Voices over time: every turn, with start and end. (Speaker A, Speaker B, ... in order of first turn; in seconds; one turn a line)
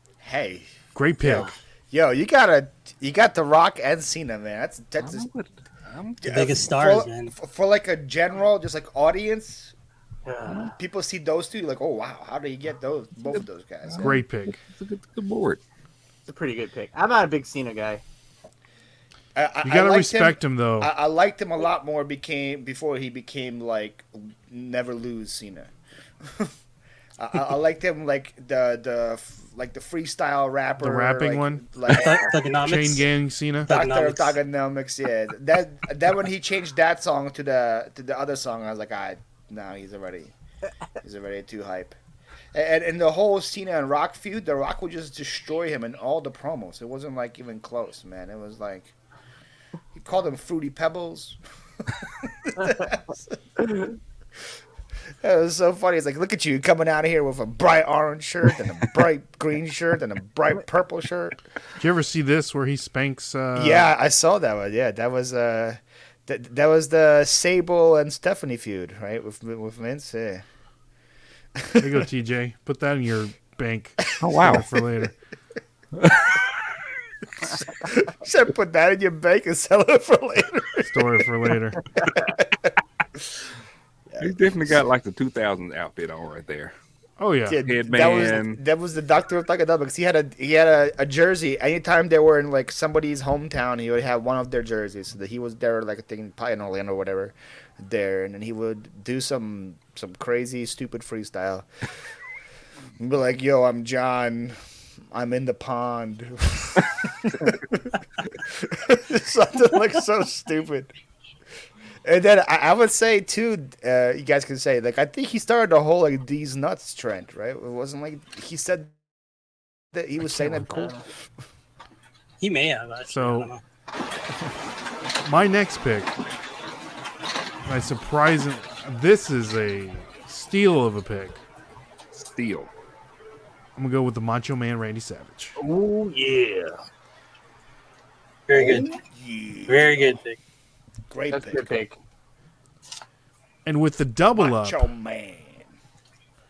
Speaker A: 0.2-0.7
Speaker B: 0.9-1.6
Speaker A: 1.2-5.3
Speaker C: 5.0-6.2
Speaker A: 6.2-9.7
Speaker D: 6.3-7.3
Speaker E: 10.2-10.8
Speaker A: 10.8-14.2
Speaker C: 13.9-15.6
Speaker B: 14.0-14.6
Speaker E: 16.3-18.0
Speaker A: 19.4-25.7
Speaker B: 19.6-20.9
Speaker A: 26.2-26.5
Speaker A: 27.2-32.3
Speaker B: 30.8-31.7
Speaker D: 31.9-33.0
Speaker B: 32.6-33.7
Speaker A: 33.7-40.3
Speaker D: 33.7-34.4
Speaker A: 41.0-42.0
Speaker A: 42.5-48.9
Speaker A: 49.9-53.8
Speaker A: 55.2-61.4
Speaker B: 61.8-63.9
Speaker A: 63.5-70.4
Speaker A: 71.6-72.0
Speaker B: 71.8-75.1
Speaker C: 74.2-74.7
Speaker C: 76.0-76.4
Speaker A: 77.4-81.2
Speaker B: 80.9-81.9
Speaker E: 82.0-82.3
Speaker A: 82.2-82.7
Speaker A: 84.1-84.9
Speaker C: 84.2-86.7
Speaker B: 87.2-88.3
Speaker A: 87.5-101.7
Speaker C: 87.6-88.6
Speaker A: 103.0-104.6
Speaker A: 105.1-110.9
Speaker A: 112.0-119.1
Speaker A: 119.9-121.0
Speaker E: 120.3-121.0
Speaker D: 122.4-123.6
Speaker B: 123.1-123.5
Speaker B: 125.2-126.2
Speaker B: 127.7-131.4
Speaker C: 132.2-132.7
Speaker B: 133.8-135.5
Speaker E: 135.6-136.8
Speaker D: 138.5-138.9
Speaker A: 138.5-140.2
Speaker D: 139.7-140.4
Speaker A: 141.1-141.8
Speaker E: 141.3-142.0
Speaker B: 143.7-144.8
Speaker A: 144.4-145.7